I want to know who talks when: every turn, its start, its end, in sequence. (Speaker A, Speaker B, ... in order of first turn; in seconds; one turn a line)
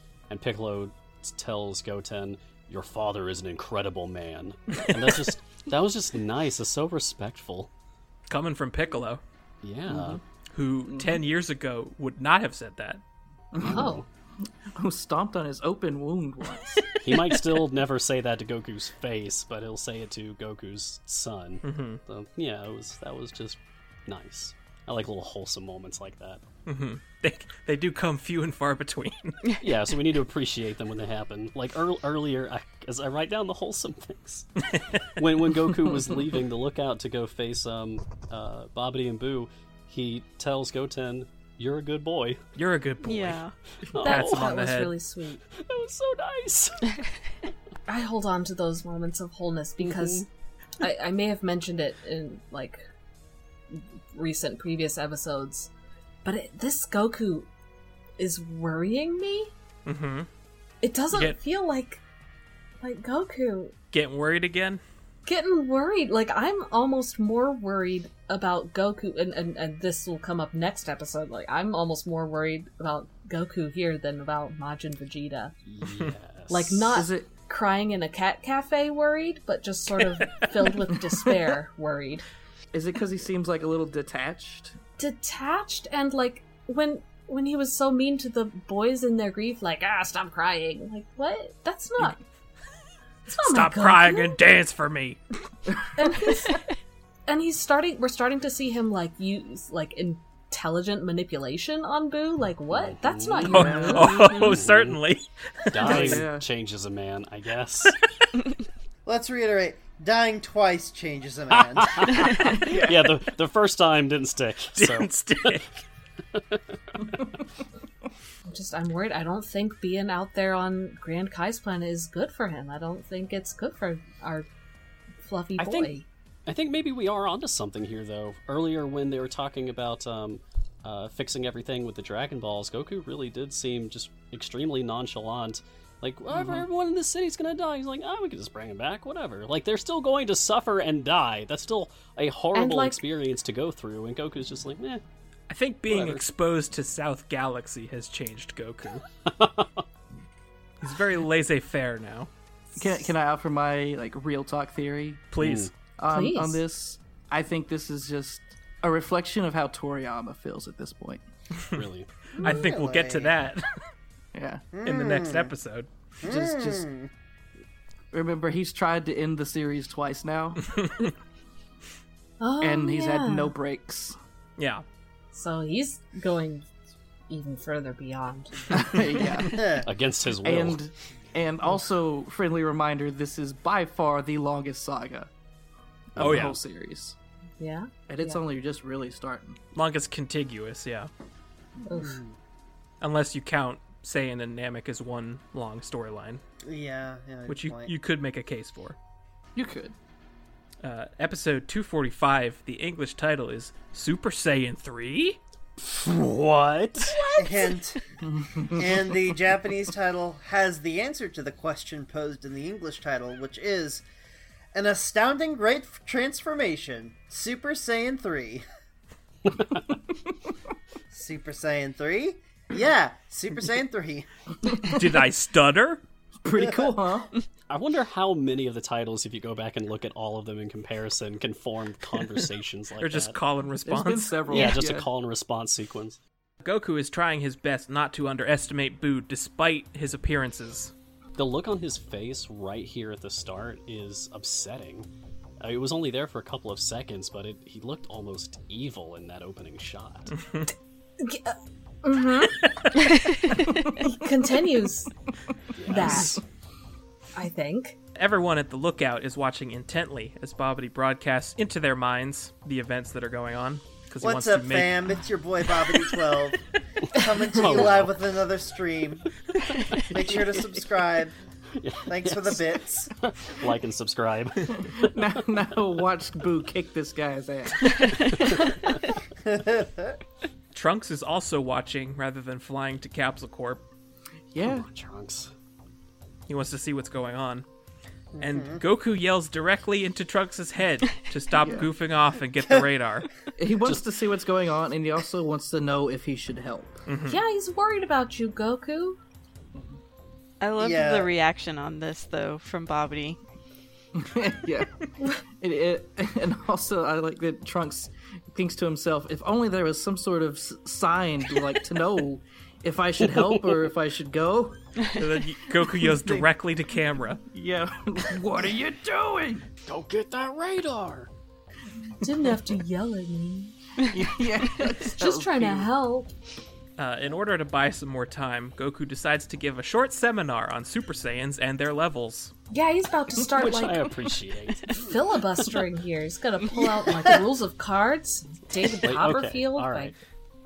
Speaker A: 0.3-7.7
Speaker B: 8.3-9.2
Speaker A: 9.6-10.2
Speaker B: 10.5-13.0
Speaker C: 10.9-11.2
Speaker C: 13.5-13.8
Speaker A: 13.6-14.1
Speaker D: 13.7-14.0
Speaker C: 14.8-17.0
Speaker A: 16.9-26.4
Speaker B: 21.6-22.0
Speaker B: 26.7-29.4
Speaker A: 29.6-34.5
Speaker B: 34.7-35.0
Speaker A: 35.2-42.4
Speaker B: 42.6-43.4
Speaker E: 43.0-43.5
Speaker A: 43.9-44.5
Speaker B: 44.0-44.9
Speaker D: 44.0-45.4
Speaker A: 45.6-46.9
Speaker D: 47.9-50.3
Speaker A: 49.8-50.2
Speaker D: 50.8-52.8
Speaker D: 53.7-55.7
Speaker D: 56.2-57.5
Speaker D: 58.2-59.5
Speaker B: 59.9-60.3
Speaker D: 60.8-62.0
Speaker D: 62.8-63.7
Speaker B: 63.9-64.8
Speaker D: 65.3-75.5
Speaker A: 75.7-76.8
Speaker D: 76.5-82.2
Speaker C: 76.9-77.3
Speaker C: 82.7-84.8
Speaker D: 85.0-92.2
Speaker D: 93.3-94.4
Speaker B: 93.3-95.2
Speaker D: 96.0-96.6
Speaker D: 97.3-104.3
Speaker A: 102.7-103.7
Speaker C: 103.5-104.2
Speaker B: 103.5-106.2
Speaker A: 104.2-105.0
Speaker A: 105.7-108.0
Speaker C: 105.8-106.5
Speaker F: 109.1-112.5
Speaker A: 111.5-115.6
Speaker C: 112.5-113.0
Speaker B: 114.8-115.8
Speaker A: 116.3-116.6
Speaker D: 118.5-124.5
Speaker D: 125.2-126.1
Speaker A: 125.6-125.9
Speaker A: 126.5-145.0
Speaker D: 142.5-143.0
Speaker B: 145.5-149.0
Speaker A: 145.9-146.2
Speaker A: 149.3-149.8
Speaker B: 150.8-152.3
Speaker C: 152.8-155.3
Speaker B: 155.3-155.7
Speaker A: 155.4-155.7
Speaker C: 156.0-161.2
Speaker D: 156.1-156.6
Speaker A: 161.7-162.1
Speaker D: 162.4-162.7
Speaker B: 162.4-163.7
Speaker F: 162.4-163.3
Speaker C: 164.3-164.7
Speaker F: 164.7-165.5
Speaker B: 164.8-165.9
Speaker F: 166.2-167.1
Speaker C: 166.2-166.9
Speaker C: 168.1-170.6
Speaker D: 172.4-173.5
Speaker C: 172.6-174.2
Speaker B: 174.6-174.8
Speaker D: 175.3-176.7
Speaker D: 177.3-178.9
Speaker C: 178.7-179.6
Speaker F: 179.5-179.9
Speaker A: 179.8-180.8
Speaker C: 180.4-185.3
Speaker C: 186.2-187.2
Speaker A: 186.2-186.6
Speaker B: 186.2-186.6
Speaker D: 187.6-188.4
Speaker C: 188.1-189.6
Speaker B: 189.8-191.1
Speaker D: 191.9-192.2
Speaker F: 192.0-192.4
Speaker B: 193.0-196.4
Speaker F: 196.6-197.9
Speaker B: 197.5-199.0
Speaker C: 199.6-199.9
Speaker B: 200.8-205.4
Speaker A: 205.8-207.2
Speaker E: 207.1-207.8
Speaker F: 207.4-208.0
Speaker C: 208.2-209.0
Speaker F: 208.6-214.0
Speaker F: 214.7-218.6
Speaker A: 219.5-219.8
Speaker F: 221.1-224.3
Speaker C: 224.7-225.0
Speaker B: 224.8-226.0
Speaker C: 226.4-227.3
Speaker F: 226.6-226.9
Speaker A: 227.7-233.4
Speaker B: 233.0-234.6
Speaker C: 233.8-235.1
Speaker A: 234.5-236.2
Speaker B: 236.6-240.9
Speaker A: 241.3-245.1
Speaker A: 245.6-250.3
Speaker B: 250.3-250.7
Speaker D: 251.2-252.7
Speaker D: 254.0-255.1
Speaker A: 255.8-256.4
Speaker D: 255.9-256.4
Speaker C: 256.1-256.4
Speaker D: 257.4-258.0
Speaker B: 258.2-265.0
Speaker F: 264.2-269.3
Speaker A: 267.5-268.2
Speaker F: 270.1-271.4
Speaker C: 270.1-270.8
Speaker A: 271.8-275.2
Speaker F: 272.1-273.1
Speaker C: 274.7-278.4
Speaker A: 278.5-278.9
Speaker F: 279.4-280.2
Speaker B: 280.7-283.8
Speaker C: 284.5-284.9
Speaker A: 284.6-285.5
Speaker B: 286.5-287.6
Speaker F: 288.4-288.8
Speaker B: 288.4-293.3
Speaker C: 291.5-291.9
Speaker C: 293.6-297.0
Speaker B: 297.1-297.4
Speaker D: 297.3-299.2
Speaker E: 300.6-303.4
Speaker F: 300.8-301.3
Speaker C: 304.1-315.2
Speaker A: 313.2-313.8
Speaker B: 315.2-317.4
Speaker C: 315.9-316.5
Speaker C: 317.5-319.6
Speaker A: 319.9-321.3
Speaker D: 322.2-323.7
Speaker C: 324.0-325.9
Speaker D: 325.1-326.3
Speaker B: 327.0-332.5
Speaker D: 332.7-334.1
Speaker A: 333.5-335.2
Speaker D: 334.9-340.1
Speaker A: 339.0-340.1